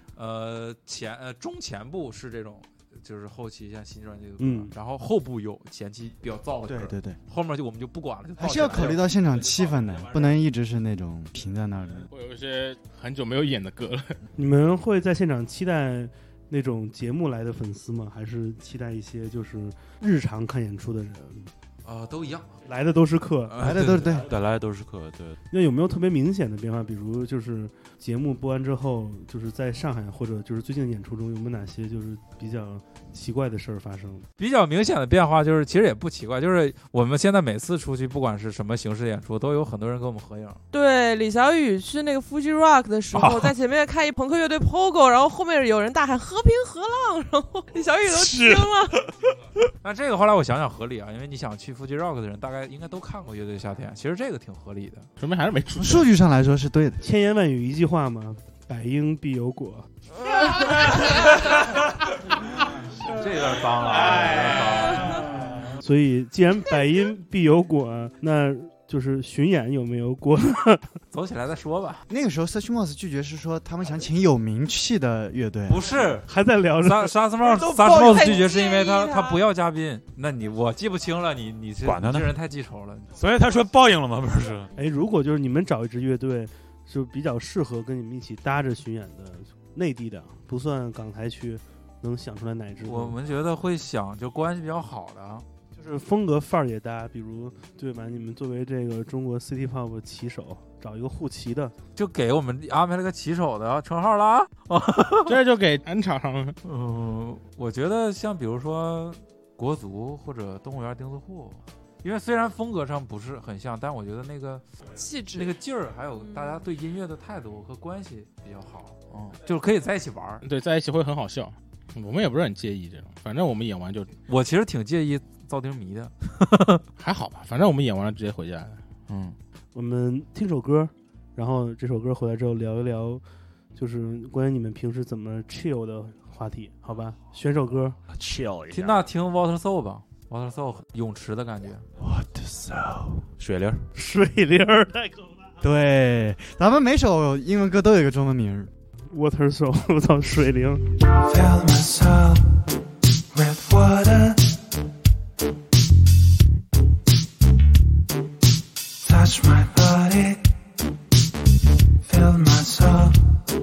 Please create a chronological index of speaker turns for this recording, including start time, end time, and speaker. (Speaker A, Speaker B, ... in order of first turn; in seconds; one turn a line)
Speaker A: 0.1-9.2
Speaker B: 4.4-4.7
Speaker C: 6.7-7.2
Speaker C: 8.4-12.1
Speaker D: 12.1-14.2
Speaker B: 14.3-21.5
Speaker A: 21.8-22.5
Speaker B: 22.6-23.6
Speaker A: 23.5-24.1
Speaker C: 23.6-24.3
Speaker E: 23.7-25.4
Speaker B: 25.5-34.3
Speaker A: 34.4-40.6
Speaker F: 40.7-49.0
Speaker E: 43.1-43.5
Speaker E: 48.1-48.7
Speaker A: 49.8-55.1
Speaker D: 55.2-56.1
Speaker C: 55.8-57.0
Speaker B: 57.0-59.9
Speaker A: 63.0-65.3
Speaker B: 65.8-70.9
Speaker A: 71.1-72.0
Speaker C: 72.1-76.1
Speaker A: 75.7-76.3
Speaker B: 76.2-77.1
Speaker A: 76.8-83.1
Speaker F: 77.6-79.4
Speaker E: 81.8-82.3
Speaker E: 83.2-84.7
Speaker B: 84.7-93.2
Speaker A: 92.8-95.5
Speaker B: 95.7-101.7
Speaker A: 102.0-105.3
Speaker D: 105.2-106.6
Speaker A: 106.6-114.6
Speaker F: 114.9-115.5
Speaker A: 115.3-120.4
Speaker F: 116.2-116.7
Speaker D: 120.4-124.1
Speaker A: 124.3-126.8
Speaker D: 127.0-128.8
Speaker A: 129.1-129.4
Speaker B: 129.7-133.2
Speaker B: 133.7-138.0
Speaker E: 138.1-139.0
Speaker A: 138.7-141.8
Speaker E: 142.0-143.9
Speaker B: 143.9-145.5
Speaker C: 145.6-148.7
Speaker B: 149.1-150.8
Speaker G: 151.2-152.4
Speaker G: 153.3-154.4
Speaker G: 159.0-160.4
Speaker G: 162.0-163.2